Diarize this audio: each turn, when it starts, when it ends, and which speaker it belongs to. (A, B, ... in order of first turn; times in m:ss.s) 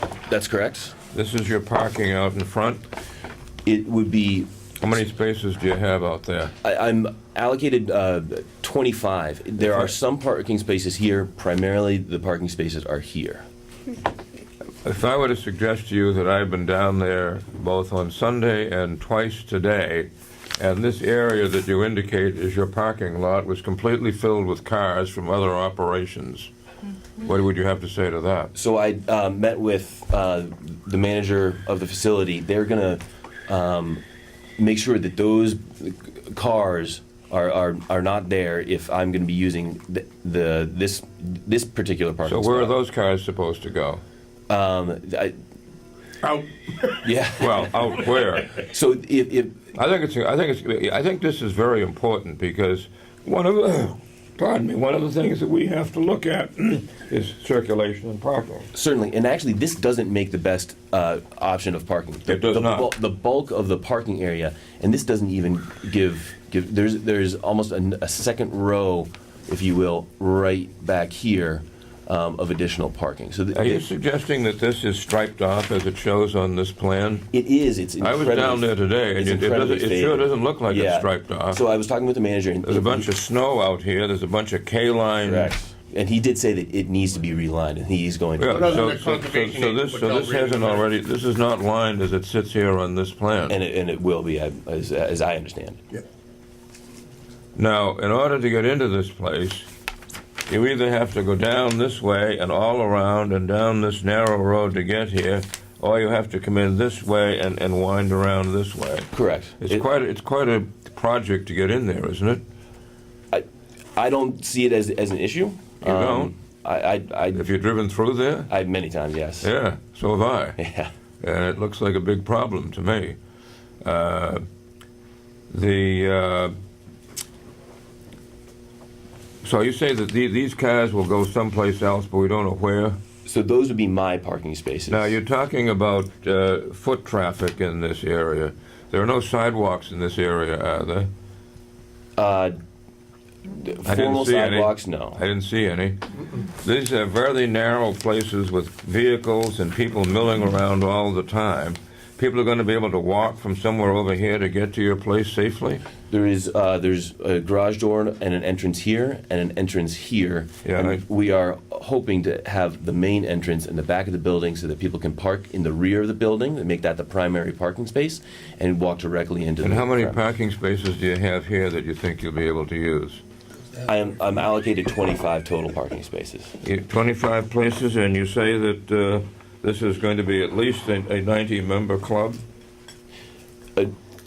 0:00.3-0:01.0 A
0:01.1-0:02.8 B
0:03.6-0:04.5 A
0:04.8-0:06.5 B
0:06.6-0:13.4 A
0:14.8-0:26.5 B
0:27.2-0:28.5 B
0:28.5-0:34.0 A
0:34.6-0:42.8 A
0:42.3-0:44.0 B
0:44.5-0:45.4 A
0:46.2-0:47.1 C
0:47.0-0:48.0 A
0:47.4-0:48.6 B
0:48.6-0:49.6 A
0:49.8-0:58.7 B
0:58.7-1:13.9 A
1:02.3-1:02.9 B
1:13.5-1:17.3 B
1:17.3-1:23.1 A
1:18.0-1:21.6 B
1:22.6-1:25.5 B
1:25.2-1:29.0 A
1:28.4-1:33.6 B
1:28.5-1:30.9 C
1:33.5-1:35.8 A
1:37.6-1:39.7 B
1:40.5-1:49.1 B
1:49.1-1:49.8 A
1:49.6-1:52.4 B
1:53.3-1:57.5 A
1:55.8-1:56.3 B
1:57.4-1:58.5 B
1:58.5-1:59.5 A
1:59.4-2:00.6 B
2:00.6-2:00.9 A
2:01.2-2:03.2 B
2:03.8-2:04.4 B
2:05.5-2:06.5 B
2:09.4-2:13.0 B
2:13.3-2:15.2 A
2:14.9-2:21.1 B
2:22.2-2:22.6 A
2:23.5-2:25.2 A
2:23.9-2:35.8 B
2:36.1-2:50.2 A
2:40.6-2:41.0 B
2:49.6-2:53.2 B
2:53.8-2:56.5 A
2:56.6-3:02.4 B